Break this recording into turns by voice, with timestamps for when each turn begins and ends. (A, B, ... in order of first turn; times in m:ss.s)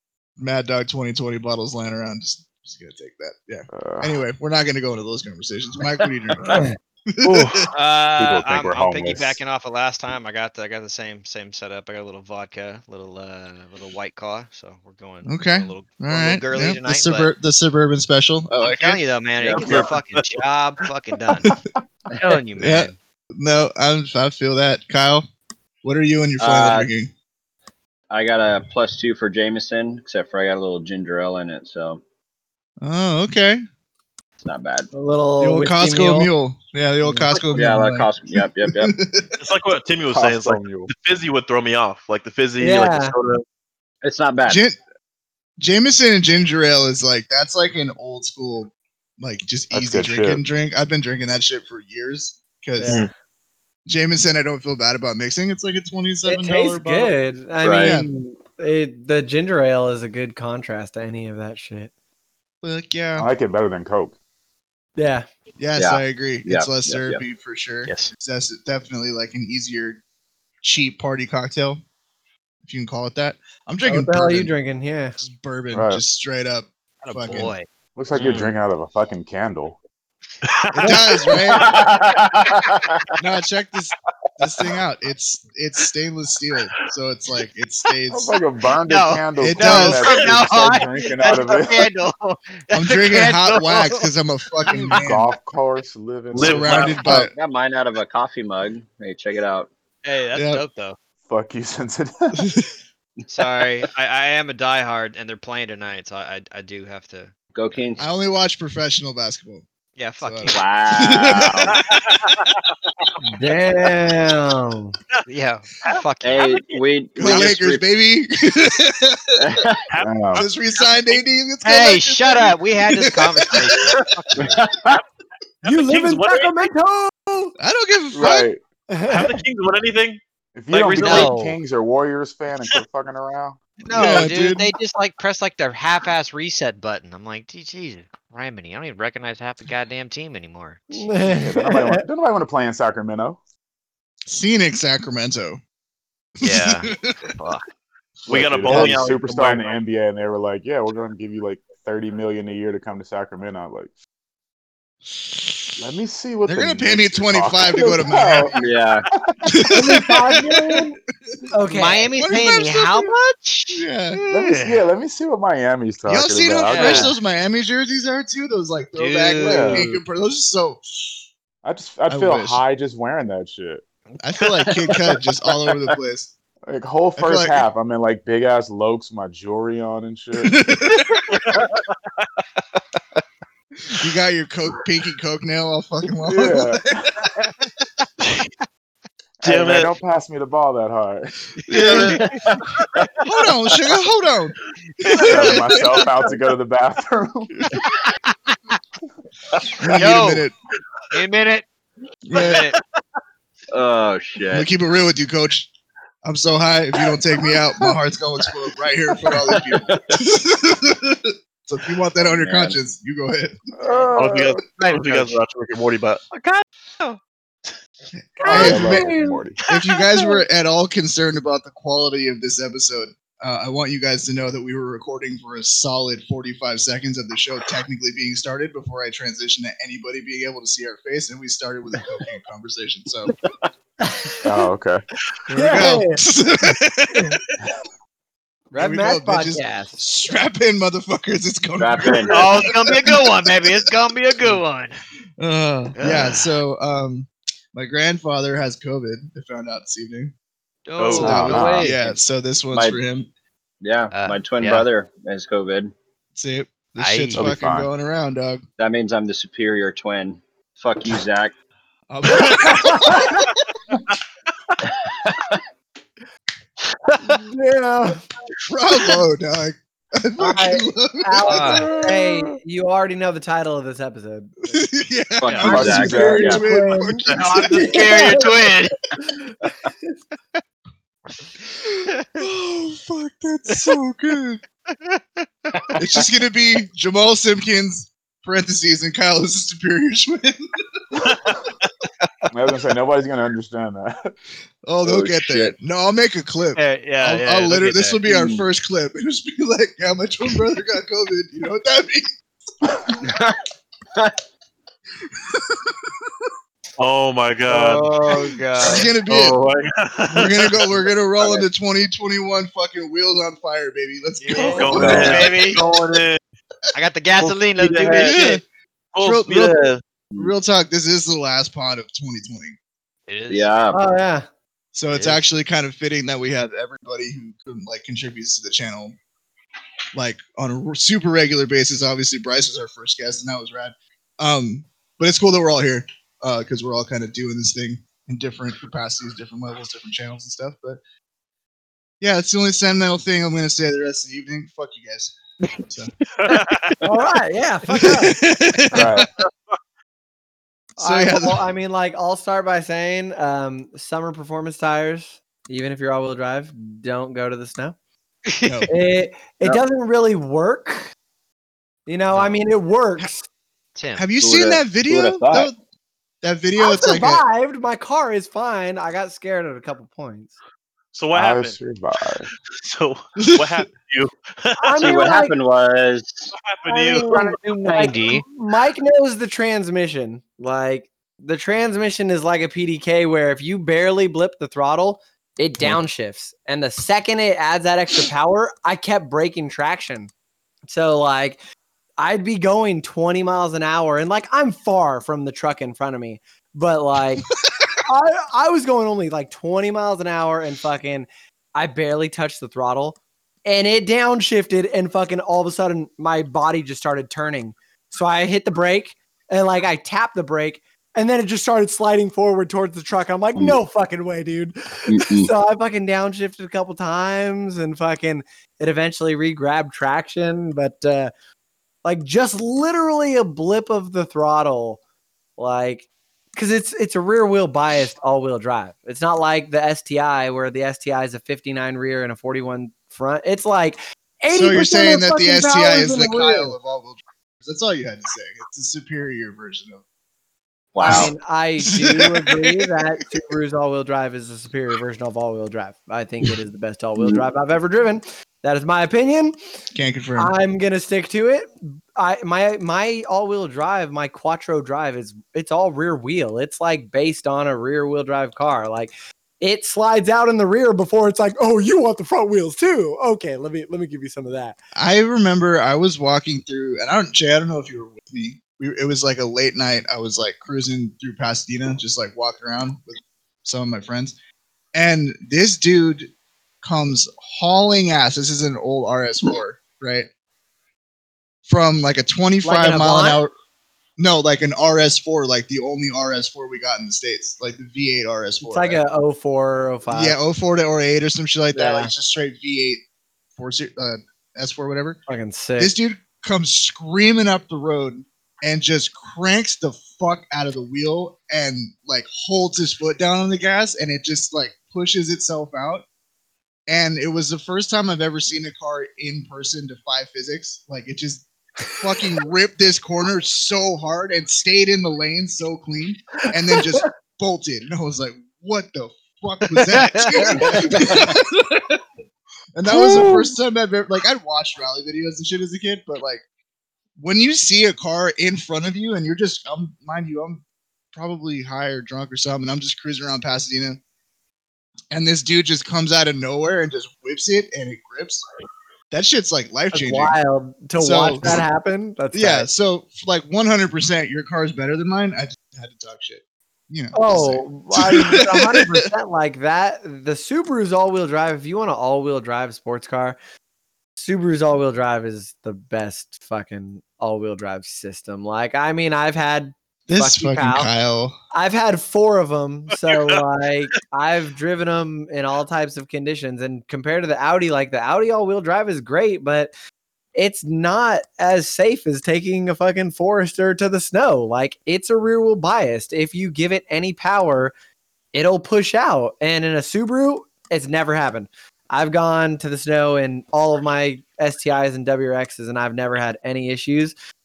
0:00.4-0:07.6 A
0:03.7-0:04.2 B
0:07.2-0:07.7 C
0:07.7-0:17.3 D
0:08.2-0:09.4 B
0:15.2-0:19.0 A
0:18.6-0:21.5 D
0:19.4-0:19.9 E
0:19.6-0:20.4 C
0:22.2-0:23.0 D
0:22.6-0:25.2 A
0:25.8-0:27.1 A
0:26.4-0:26.9 E
0:28.1-0:32.0 E
0:32.8-0:33.6 A
0:34.4-0:34.9 E
0:34.9-0:36.3 F
0:35.4-0:39.3 A
0:37.0-0:37.4 F
0:37.5-0:38.9 E
0:39.4-0:43.4 C
0:40.1-0:40.9 B
0:42.6-0:43.1 F
0:44.0-0:44.6 E
0:44.5-0:44.8 A
0:45.6-0:53.0 A
0:49.7-0:50.4 B
0:52.8-0:53.1 F
0:53.8-0:57.1 A
0:56.2-1:01.9 F
0:57.6-0:58.0 E
0:57.8-0:58.1 A
1:02.6-1:03.3 A
1:03.2-1:04.1 B
1:05.0-1:05.2 F
1:05.6-1:10.0 A
1:05.8-1:07.2 E
1:07.8-1:08.1 D
1:10.6-1:11.8 A
1:12.6-1:14.5 A
1:13.8-1:15.2 F
1:15.2-1:17.5 A
1:15.7-1:16.0 B
1:17.0-1:18.5 D
1:18.0-1:19.8 B
1:18.2-1:18.4 C
1:20.4-1:21.6 C
1:20.7-1:21.6 A
1:21.5-1:22.8 E
1:23.2-1:28.4 A
1:28.1-1:31.9 B
1:28.8-1:34.1 D
1:29.4-1:30.8 A
1:32.7-1:35.3 A
1:34.8-1:37.0 B
1:36.3-1:37.0 C
1:36.4-1:37.3 A
1:36.7-1:39.7 E
1:40.0-1:41.0 D
1:40.3-1:40.6 A
1:41.3-1:42.4 B
1:42.4-1:42.6 A
1:43.3-1:47.3 D
1:47.5-1:48.0 E
1:48.0-1:49.6 A
1:50.0-1:50.6 D
1:50.2-1:51.8 A
1:50.5-1:51.8 E
1:51.9-1:52.5 C
1:53.4-1:54.9 F
1:55.3-1:56.5 D
1:56.2-1:57.8 E
1:57.2-1:59.6 A
1:59.4-1:59.9 E
1:59.9-2:01.2 C
2:00.0-2:00.4 B
2:00.4-2:03.8 A
2:01.6-2:04.6 D
2:04.4-2:04.9 E
2:05.6-2:06.5 C
2:05.6-2:07.5 F
2:07.6-2:08.5 A
2:08.1-2:08.6 B
2:08.9-2:09.4 F
2:09.1-2:10.2 C
2:10.5-2:14.2 B
2:10.7-2:11.4 C
2:11.0-2:11.5 F
2:11.0-2:11.4 D
2:13.8-2:21.1 D
2:13.9-2:14.7 A
2:20.9-2:22.0 F
2:21.2-2:23.4 B
2:24.3-2:25.6 A
2:26.4-2:27.2 A
2:26.4-2:27.6 D
2:28.2-2:29.2 A
2:28.3-2:29.8 C
2:28.3-2:33.9 B
2:35.1-2:35.6 A
2:35.8-2:38.6 B
2:36.5-2:38.5 A
2:38.5-2:39.1 E
2:39.1-2:39.6 B
2:39.4-2:41.4 A
2:39.7-2:41.0 F
2:41.5-2:42.1 F
2:41.7-2:44.8 D
2:42.1-2:43.1 A
2:43.7-2:44.2 A
2:44.3-2:47.1 B
2:46.1-2:51.2 A
2:46.7-2:47.1 D
2:49.0-2:50.0 D
2:49.4-2:49.9 B
2:51.6-2:53.8 B
2:52.1-2:52.6 A
2:54.2-2:56.3 A
2:54.7-2:55.0 E
2:56.6-3:00.6 B
2:57.2-2:57.6 A
3:00.4-3:01.2 A
3:01.3-3:01.8 C
3:03.9-3:07.3 A
3:06.2-3:07.1 B
3:09.4-3:11.4 B
3:09.4-3:09.9 C
3:11.7-3:12.2 A
3:11.7-3:12.4 D
3:11.9-3:12.2 E
3:13.2-3:16.0 A
3:15.2-3:15.5 D
3:15.2-3:17.5 B
3:17.5-3:17.8 A
3:19.8-3:20.5 A
3:19.9-3:20.4 D
3:21.1-3:21.6 D
3:22.3-3:22.6 A
3:22.3-3:22.8 D
3:23.7-3:24.7 E
3:24.5-3:25.7 A
3:26.2-3:33.6 A
3:29.5-3:30.0 E
3:32.2-3:32.8 E
3:33.8-3:34.6 B
3:34.1-3:36.2 C
3:34.8-3:35.4 D
3:36.3-3:36.6 F
3:38.2-3:39.1 A
3:38.4-3:39.4 F
3:38.5-3:39.6 B
3:39.7-3:53.3 A
3:54.0-3:54.4 F
3:54.4-3:55.0 B
3:55.5-3:56.2 F
3:55.5-3:57.4 A
3:58.7-4:00.0 F
3:58.8-4:03.9 A
4:01.8-4:02.6 E
4:02.3-4:05.0 D
4:05.4-4:10.3 A
4:06.0-4:06.6 D
4:10.8-4:12.2 D
4:11.0-4:11.8 C
4:11.1-4:13.3 A
4:11.2-4:11.9 B
4:12.7-4:13.0 E
4:13.8-4:15.9 E
4:14.1-4:14.8 D
4:16.3-4:18.6 A
4:17.0-4:17.5 D
4:17.3-4:17.9 B
4:18.8-4:21.5 E
4:22.1-4:23.4 A
4:27.3-4:28.2 F
4:28.7-4:31.9 A
4:30.4-4:34.8 F
4:31.4-4:31.9 D
4:31.7-4:32.5 B
4:34.7-4:38.5 A
4:35.4-4:36.6 E
4:35.6-4:38.4 F
4:35.6-4:36.6 B
4:37.2-4:39.0 D
4:42.4-4:44.6 A
4:46.0-4:50.6 A
4:52.5-4:54.3 B
4:54.8-5:02.3 A
4:55.0-4:55.7 E
4:56.8-4:58.2 D
4:58.2-4:58.6 E
5:03.2-5:03.6 E
5:05.5-5:05.9 A
5:07.0-5:08.3 C
5:07.7-5:09.1 D
5:08.8-5:09.6 A
5:08.9-5:11.0 C
5:10.3-5:15.6 A
5:14.4-5:15.8 D
5:14.5-5:16.4 C
5:15.0-5:15.4 E
5:16.9-5:18.4 D
5:17.4-5:18.6 C
5:18.2-5:18.6 A
5:19.1-5:20.0 C
5:19.2-5:22.8 A
5:23.3-5:23.7 D
5:23.5-5:24.1 E
5:23.9-5:24.5 F
5:24.9-5:29.2 A
5:25.1-5:25.4 D
5:30.1-5:41.0 A
5:42.2-5:45.3 A
5:46.4-5:46.9 C
5:47.0-5:48.3 F
5:47.9-5:49.3 A
5:48.9-5:49.3 B
5:51.0-5:58.0 F
5:51.0-5:51.6 A
5:58.5-5:58.8 D
5:58.6-5:58.9 A
5:58.9-6:01.1 F
6:02.1-6:03.5 F
6:02.3-6:02.6 D
6:03.9-6:04.2 D
6:04.2-6:05.7 A
6:04.4-6:05.7 E
6:06.4-6:07.4 A
6:06.8-6:10.5 F
6:11.1-6:11.8 C
6:11.3-6:12.5 B
6:12.8-6:15.2 C
6:13.4-6:13.9 A
6:14.8-6:15.5 F
6:15.0-6:16.5 E
6:16.5-6:17.5 C
6:16.8-6:30.3 F
6:17.2-6:18.4 D
6:30.8-6:31.6 F
6:32.2-6:37.5 F
6:38.0-7:01.3 F
6:55.1-6:55.5 E
7:02.0-7:05.0 F
7:05.6-7:16.8 F
7:14.5-7:20.0 A
7:20.9-7:21.3 E
7:21.0-7:29.6 F
7:21.0-7:21.3 A
7:21.8-7:22.8 A
7:29.9-7:30.5 A
7:30.4-7:44.8 F
7:45.0-7:54.3 A
7:54.9-7:56.3 A
7:56.8-8:00.3 A
8:01.7-8:03.5 A
8:02.6-8:03.4 F
8:04.2-8:09.0 A
8:08.6-8:10.4 F
8:10.1-8:15.2 A
8:11.7-8:12.1 F
8:15.3-8:15.9 F
8:15.8-8:26.0 A
8:26.9-8:42.0 A
8:39.9-8:40.7 D
8:40.5-8:41.1 F
8:40.6-8:41.2 E
8:42.7-8:46.4 A
8:42.9-8:43.5 F
8:47.2-8:50.6 A
8:51.1-8:54.0 A
8:55.1-8:58.5 A
8:59.1-9:00.4 A
8:59.9-9:02.7 F
9:01.0-9:01.6 A
9:02.3-9:09.0 A
9:07.1-9:13.4 F
9:14.2-9:20.9 F
9:20.1-9:21.4 A
9:21.5-9:29.7 F
9:22.9-9:23.4 C
9:30.3-9:37.7 F
9:38.3-9:47.1 F